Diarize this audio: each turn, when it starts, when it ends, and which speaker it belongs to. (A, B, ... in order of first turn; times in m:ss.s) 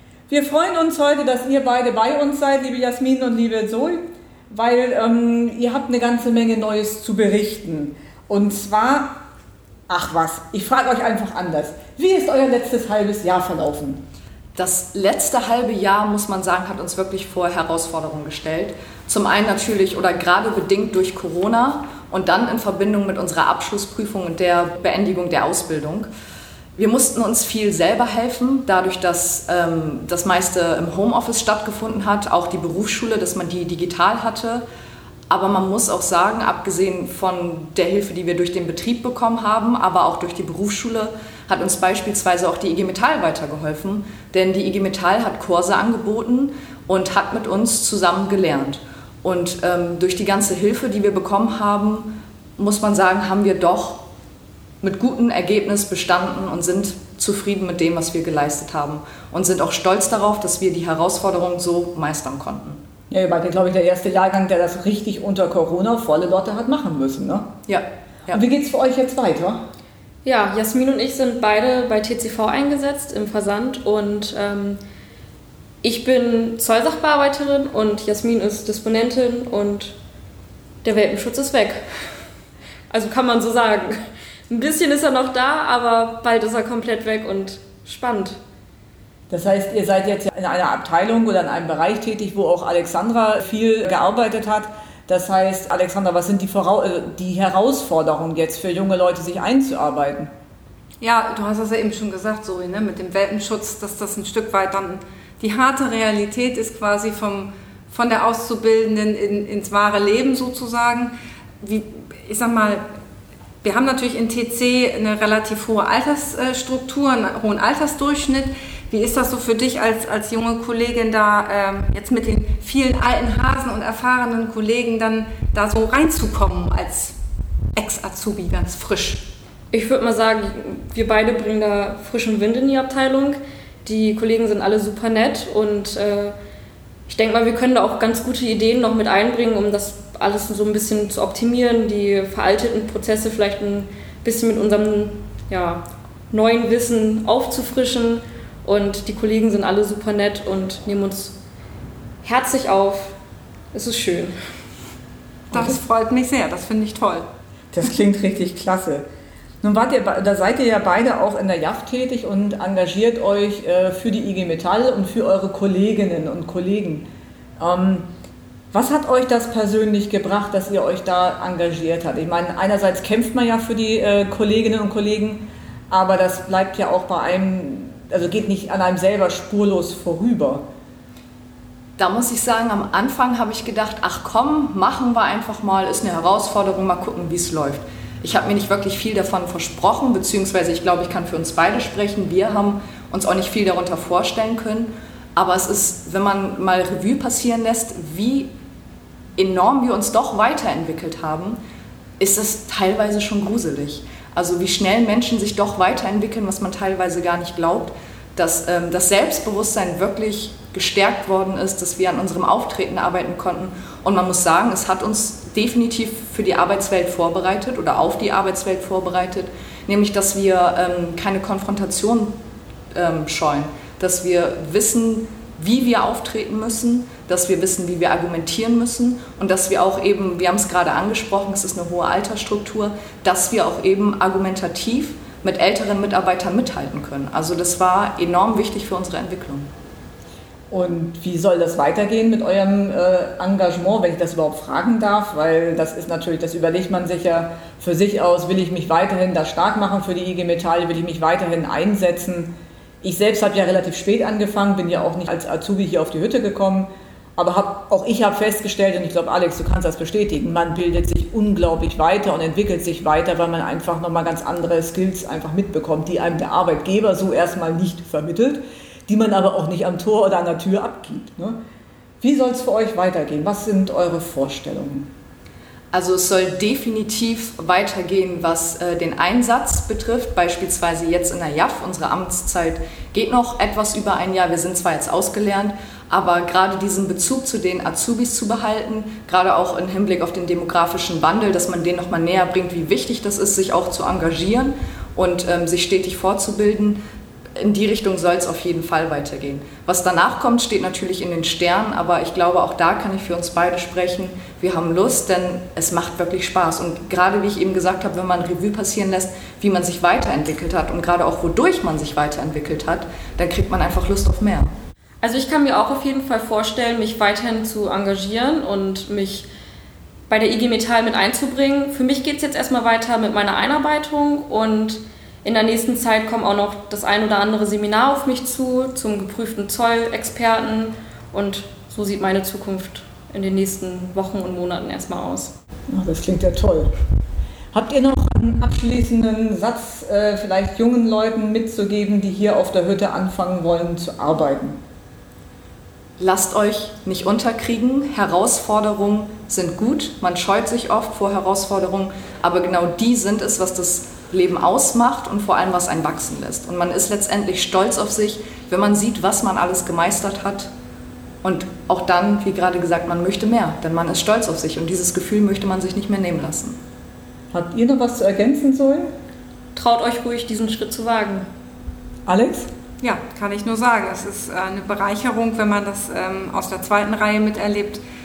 0:00.3-0:09.2 A
0:09.9-0:14.0 A
0:14.6-0:26.1 B
0:26.8-0:34.6 B
0:35.3-0:54.0 B
0:54.8-1:02.8 B
1:03.1-1:07.5 A
1:07.7-1:08.4 B
1:08.3-1:09.6 A
1:10.2-1:14.8 C
1:15.8-1:19.9 C
1:20.8-1:21.8 C
1:22.9-1:24.0 C
1:24.5-1:28.4 C
1:29.3-1:40.3 A
1:41.0-1:52.8 D
1:53.6-2:07.1 D
2:07.8-2:09.2 D
2:09.7-2:16.3 C
2:17.1-2:31.4 C
2:32.2-2:33.1 C
2:33.7-2:34.3 C
2:35.5-2:37.2 D
2:37.7-2:39.0 A
2:39.6-2:47.0 A
2:47.6-2:48.1 A
2:48.7-3:00.6 A
3:02.0-3:18.5 B
3:19.4-3:21.6 B
3:22.2-3:42.3 B
3:42.9-3:59.7 B
4:00.7-4:12.5 A
4:13.0-4:31.6 A
4:32.2-4:35.1 A
4:35.9-4:57.0 B
4:57.6-5:14.7 B
5:15.2-5:19.5 C
5:20.3-5:35.5 C
5:35.9-5:36.9 A
5:37.7-5:44.8 A
5:46.2-6:00.7 B
6:01.4-6:06.8 B
6:07.5-6:09.1 A
6:09.7-6:11.4 C
6:12.3-6:12.7 A
6:13.0-6:18.0 D